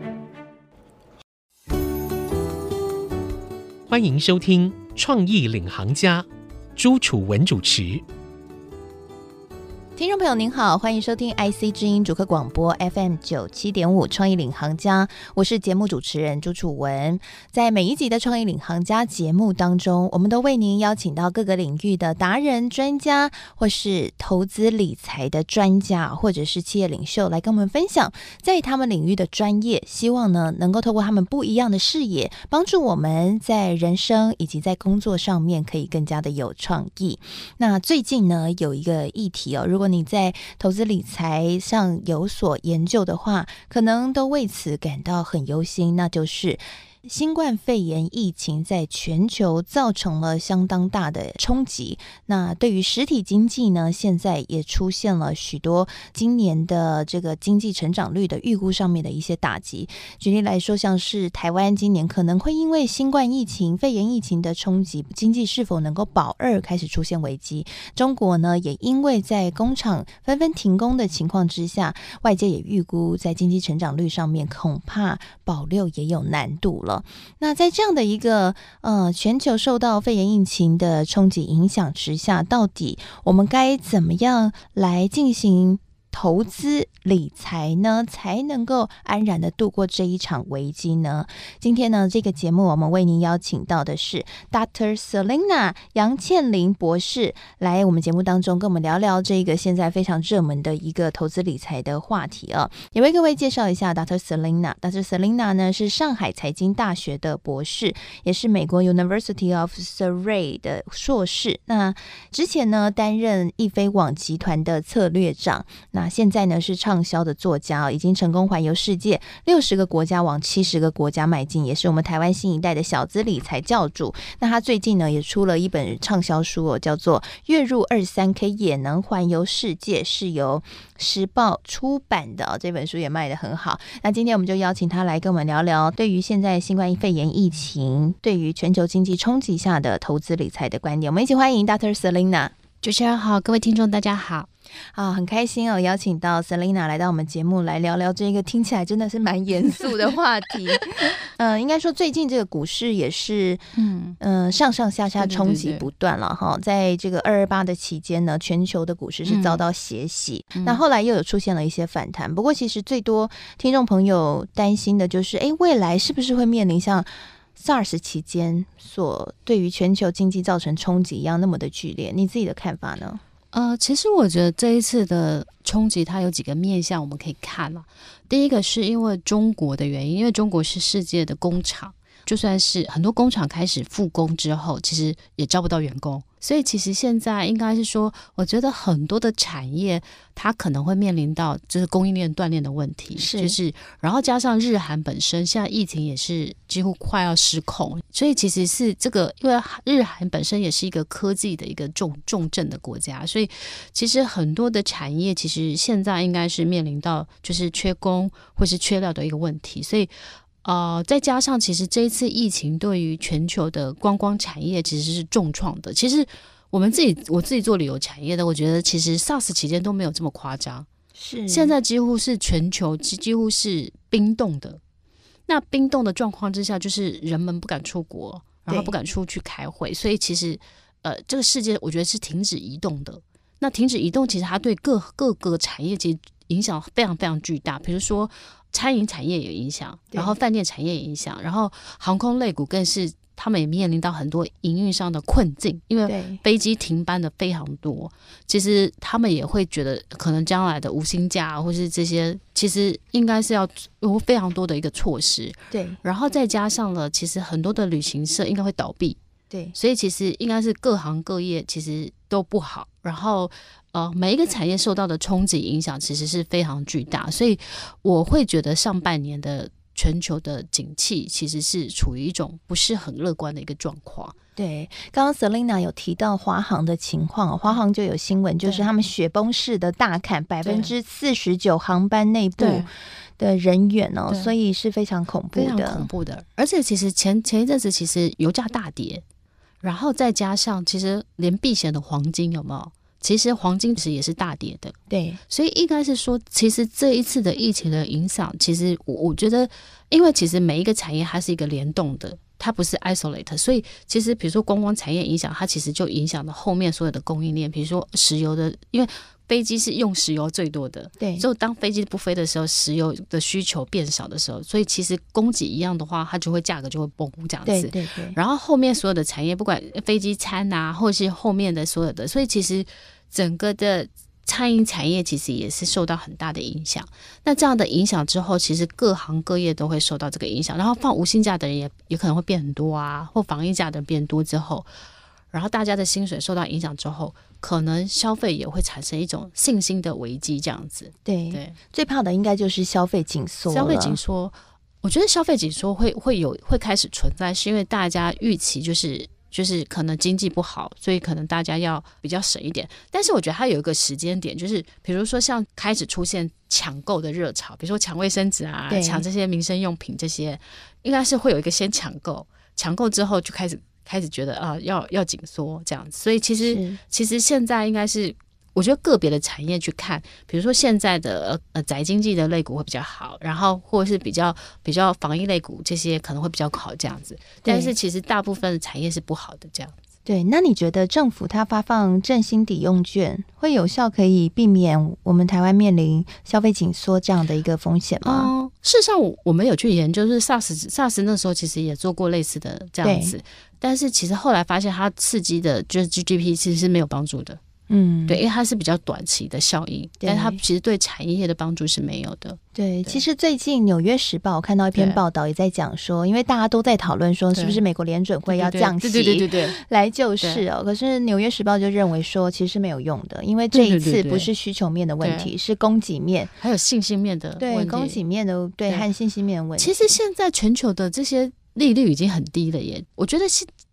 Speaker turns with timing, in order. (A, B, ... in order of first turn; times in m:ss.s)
0:03.9-0:06.2 A
0:06.8-0:08.0 A
0:10.0-2:22.5 B
2:22.8-2:24.5 C
2:24.9-2:53.2 B
2:33.8-2:34.2 C
2:35.2-2:35.9 C
2:39.3-2:39.6 C
2:40.5-2:40.8 C
2:53.5-3:40.9 C
3:13.2-3:13.6 B
3:41.2-3:41.8 B
3:41.5-3:44.8 C
3:45.5-4:19.2 C
4:06.1-4:06.4 B
4:15.7-4:16.0 B
4:19.7-4:34.4 C
4:34.6-4:46.1 B
4:40.6-4:40.9 C
4:42.6-4:42.9 C
4:44.3-4:44.6 C
4:45.5-4:49.2 C
4:49.8-4:55.0 C
4:55.1-4:55.4 B
4:55.5-5:34.9 C
5:11.2-5:11.4 B
5:17.7-5:18.4 B
5:35.5-5:41.8 C
5:41.2-5:44.2 B
5:43.7-6:19.9 C
5:58.9-5:59.3 B
6:06.6-6:07.0 B
6:17.6-6:17.9 B
6:20.3-6:28.5 B
6:28.2-6:37.6 C
6:33.0-6:33.4 B
6:37.9-6:38.4 B
6:38.3-6:43.2 C
6:40.2-6:40.6 B
6:42.8-6:56.5 B
6:44.9-6:45.2 C
6:47.5-6:47.8 C
6:48.5-6:49.8 C
6:50.4-6:50.6 C
6:53.7-6:54.5 C
6:55.2-6:55.5 C
6:56.6-6:58.2 C
6:57.6-7:00.2 B
6:59.8-7:03.7 C